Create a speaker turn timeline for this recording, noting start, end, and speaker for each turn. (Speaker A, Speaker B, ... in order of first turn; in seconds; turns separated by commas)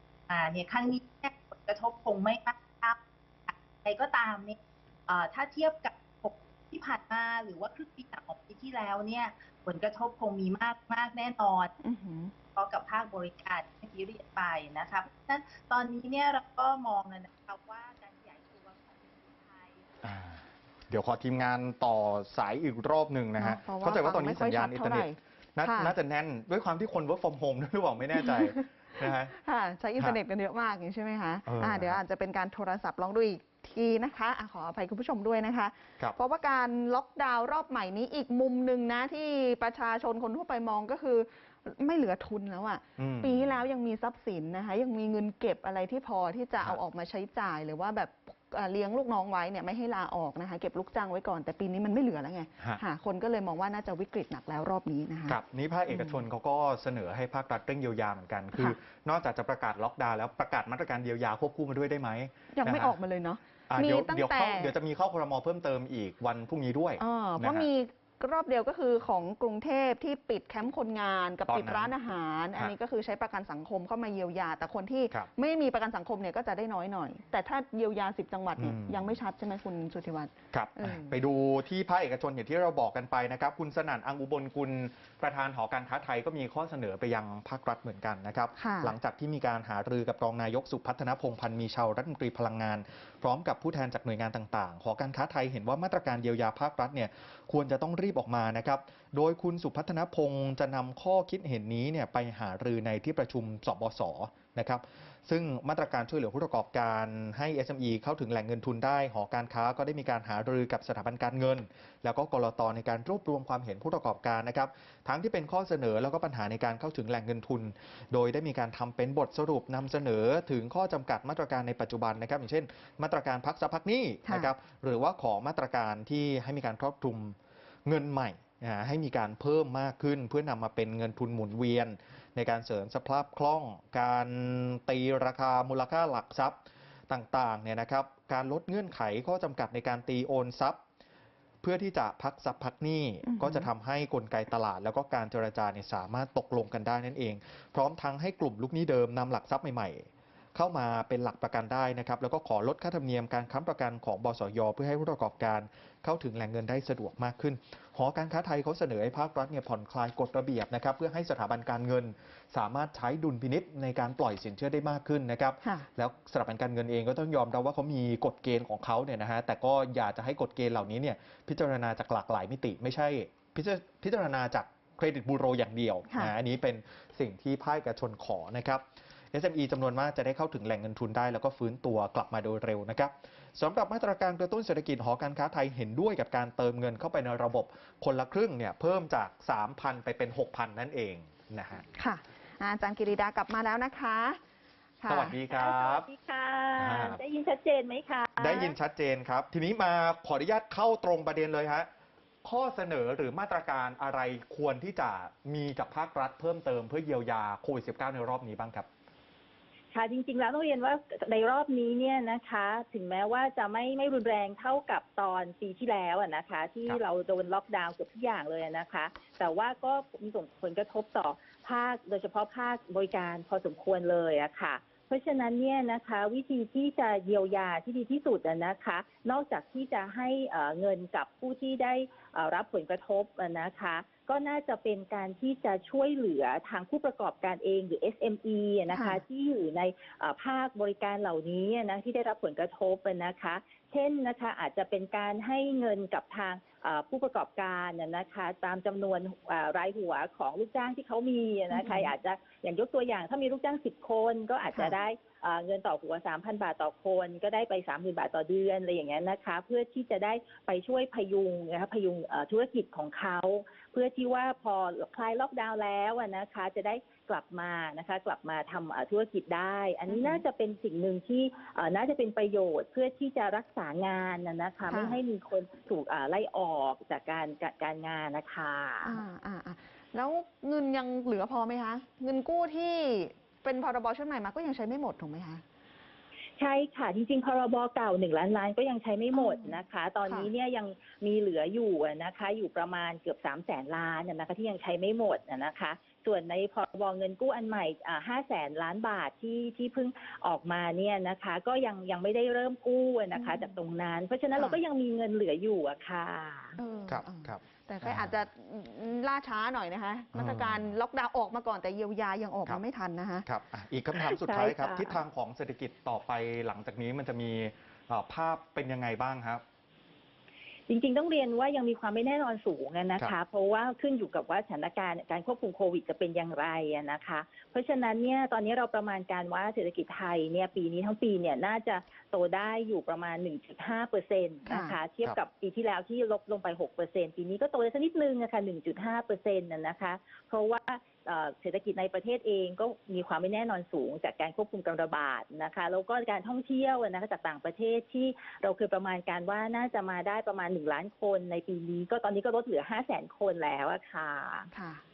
Speaker A: 0.3-11.7, Speaker B: 11.8-12.3, Speaker A: 12.5-19.9, Speaker C: 20.0-29.3, Speaker B: 23.4-25.9, Speaker B: 28.2-28.5, Speaker B: 29.3-55.4, Speaker C: 31.4-32.0, Speaker C: 43.0-43.5, Speaker C: 55.3-62.9, Speaker B: 55.9-56.2, Speaker B: 62.5-64.7, Speaker C: 63.7-67.7, Speaker B: 67.0-81.2, Speaker C: 71.5-71.9, Speaker C: 78.6-79.1, Speaker C: 80.5-136.6, Speaker B: 88.6-88.9, Speaker C: 137.1-140.8, Speaker C: 141.6-191.8, Speaker B: 143.2-143.7, Speaker B: 192.0-194.4, Speaker B: 195.0-195.3, Speaker C: 195.1-196.1, Speaker D: 195.5-198.7, Speaker C: 196.8-197.2, Speaker C: 198.4-201.9, Speaker C: 202.4-208.9, Speaker D: 209.9-279.2, Speaker B: 238.9-239.2, Speaker B: 251.7-252.1, Speaker B: 270.1-270.4, Speaker B: 274.9-275.2, Speaker B: 279.0-285.6, Speaker D: 286.6-306.8, Speaker B: 289.3-290.5, Speaker B: 303.3-303.7, Speaker B: 304.5-304.8, Speaker B: 306.8-313.4, Speaker C: 307.1-308.3, Speaker C: 310.3-310.9, Speaker C: 313.4-319.6, Speaker D: 314.2-315.2, Speaker D: 320.9-354.7, Speaker B: 334.6-334.9, Speaker B: 354.7-355.0